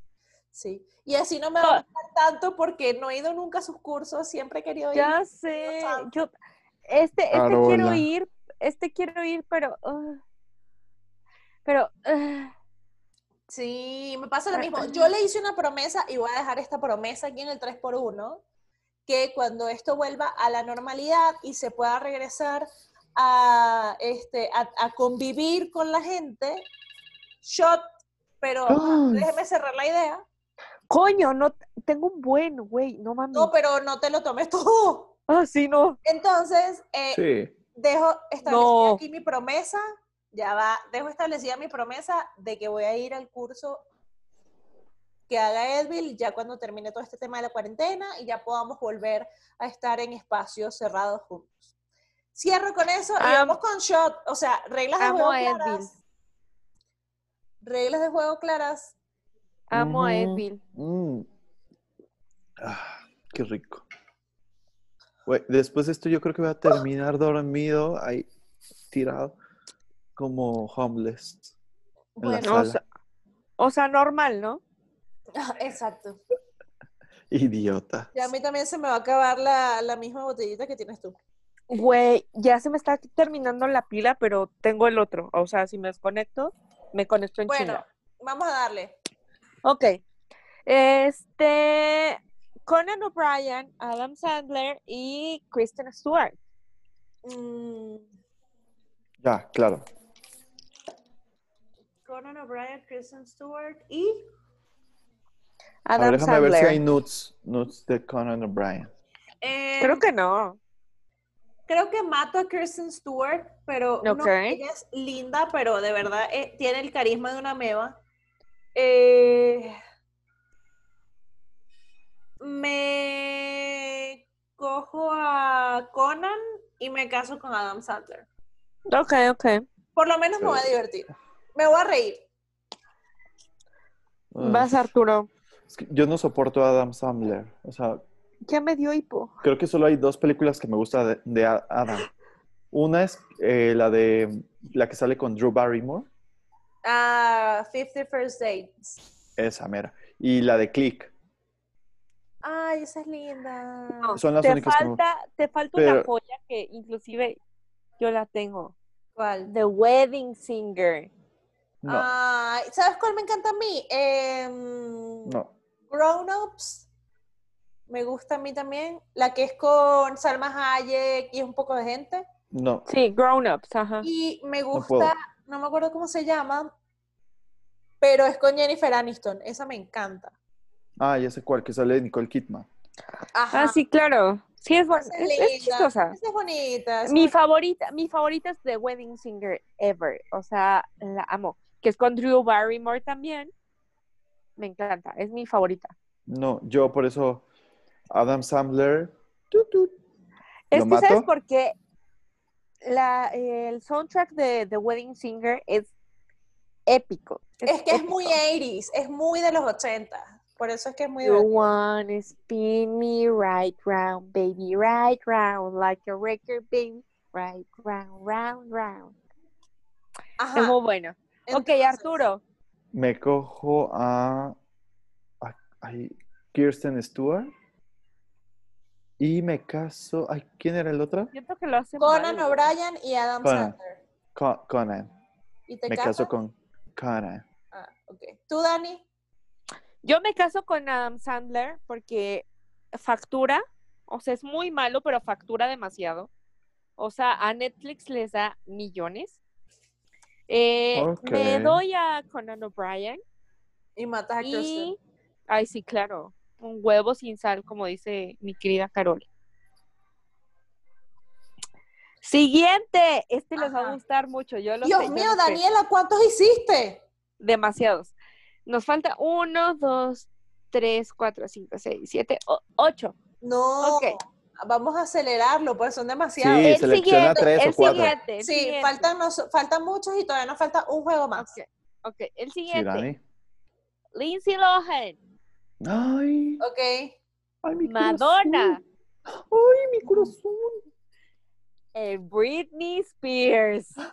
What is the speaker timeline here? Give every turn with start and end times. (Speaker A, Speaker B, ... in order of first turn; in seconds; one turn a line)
Speaker A: 0.5-6.1
Speaker B: 4.9-6.3
Speaker B: 6.9-10.2
Speaker C: 7.3-8.1
Speaker B: 11.7-12.5
Speaker A: 13.5-18.4
Speaker B: 14.5-15.1
Speaker A: 19.1-26.7
Speaker A: 27.4-27.8
Speaker A: 28.4-30.2
Speaker C: 28.7-29.3
Speaker B: 30.9-33.5
Speaker A: 33.3-35.1
Speaker B: 35.3-36.0
Speaker A: 36.0-37.2
Speaker C: 37.1-37.5
Speaker A: 37.8-43.8
Speaker B: 38.5-39.0
Speaker A: 45.3-51.6
Speaker A: 52.4-55.9
Speaker B: 53.2-53.6
Speaker B: 55.0-55.9
Speaker A: 57.6-59.0
Speaker B: 59.7-60.6
Speaker C: 59.7-61.3
Speaker C: 62.6-63.8
Speaker C: 65.3-68.3
Speaker C: 68.9-69.4
Speaker C: 70.2-71.5
Speaker A: 72.2-72.6
Speaker C: 72.2-72.8
Speaker B: 72.4-72.8
Speaker B: 73.6-74.6
Speaker A: 75.4-76.2
Speaker C: 77.3-78.1
Speaker A: 78.1-81.2
Speaker B: 81.7-87.8
Speaker A: 87.5-89.0
Speaker B: 89.6-90.0
Speaker B: 90.7-96.4
Speaker A: 97.2-98.1
Speaker C: 99.2-99.8
Speaker A: 102.1-104.2
Speaker B: 105.9-106.8
Speaker C: 106.0-108.9
Speaker A: 109.4-110.0
Speaker B: 109.8-110.6
Speaker A: 111.7-118.0
Speaker B: 114.0-114.6
Speaker A: 118.8-119.8
Speaker A: 122.4-128.3
Speaker B: 128.9-129.7
Speaker A: 130.0-132.2
Speaker C: 130.4-130.7
Speaker C: 134.3-134.8
Speaker B: 134.4-135.3
Speaker C: 135.7-138.0
Speaker B: 138.5-139.3
Speaker C: 139.4-142.1
Speaker C: 142.7-146.1
Speaker A: 146.8-149.0
Speaker C: 149.4-151.1
Speaker A: 152.4-154.2
Speaker B: 154.0-157.4
Speaker C: 154.2-155.0
Speaker C: 155.8-156.1
Speaker B: 158.0-158.8
Speaker A: 159.2-159.5
Speaker B: 159.5-161.1
Speaker C: 161.8-162.1
Speaker A: 161.9-165.3
Speaker C: 165.2-165.5
Speaker A: 165.9-166.9
Speaker A: 167.9-172.3
Speaker C: 172.5-172.9
Speaker B: 172.9-174.1
Speaker A: 174.0-176.7
Speaker C: 174.7-175.1
Speaker A: 178.0-180.3
Speaker C: 181.0-182.7
Speaker A: 183.3-183.8
Speaker B: 183.5-186.2
Speaker A: 184.9-187.3
Speaker B: 187.1-193.5
Speaker B: 194.6-195.9
Speaker C: 196.3-197.4
Speaker C: 198.1-199.9
Speaker B: 200.7-201.7
Speaker C: 200.7-201.3
Speaker B: 202.8-205.9
Speaker B: 206.9-208.4
Speaker A: 207.7-211.5
Speaker B: 211.2-219.2
Speaker A: 220.4-220.8
Speaker B: 220.6-222.4
Speaker A: 221.5-222.2
Speaker C: 222.9-224.6
Speaker C: 225.4-227.5
Speaker C: 229.2-231.3
Speaker B: 231.3-232.6
Speaker A: 232.0-234.0
Speaker C: 233.4-233.8
Speaker C: 234.3-235.1
Speaker A: 235.7-236.3
Speaker C: 235.9-237.4
Speaker A: 237.7-239.0
Speaker B: 240.0-246.3
Speaker B: 247.0-249.4
Speaker B: 250.5-253.2
Speaker C: 250.9-251.8
Speaker A: 254.0-254.9
Speaker B: 254.4-255.0
Speaker B: 255.5-259.3
Speaker B: 262.2-265.6
Speaker A: 263.6-264.0
Speaker A: 264.8-267.0
Speaker B: 267.4-268.1
Speaker B: 268.7-273.1
Speaker A: 273.4-276.8
Speaker B: 273.8-274.2
Speaker C: 276.4-278.1
Speaker B: 276.6-279.1
Speaker A: 277.9-281.5
Speaker B: 281.4-283.1
Speaker C: 282.7-283.2
Speaker B: 284.1-285.2
Speaker C: 285.8-286.6
Speaker A: 286.6-287.2
Speaker C: 287.6-288.8
Speaker B: 287.8-288.8
Speaker C: 289.3-290.9
Speaker B: 291.9-293.9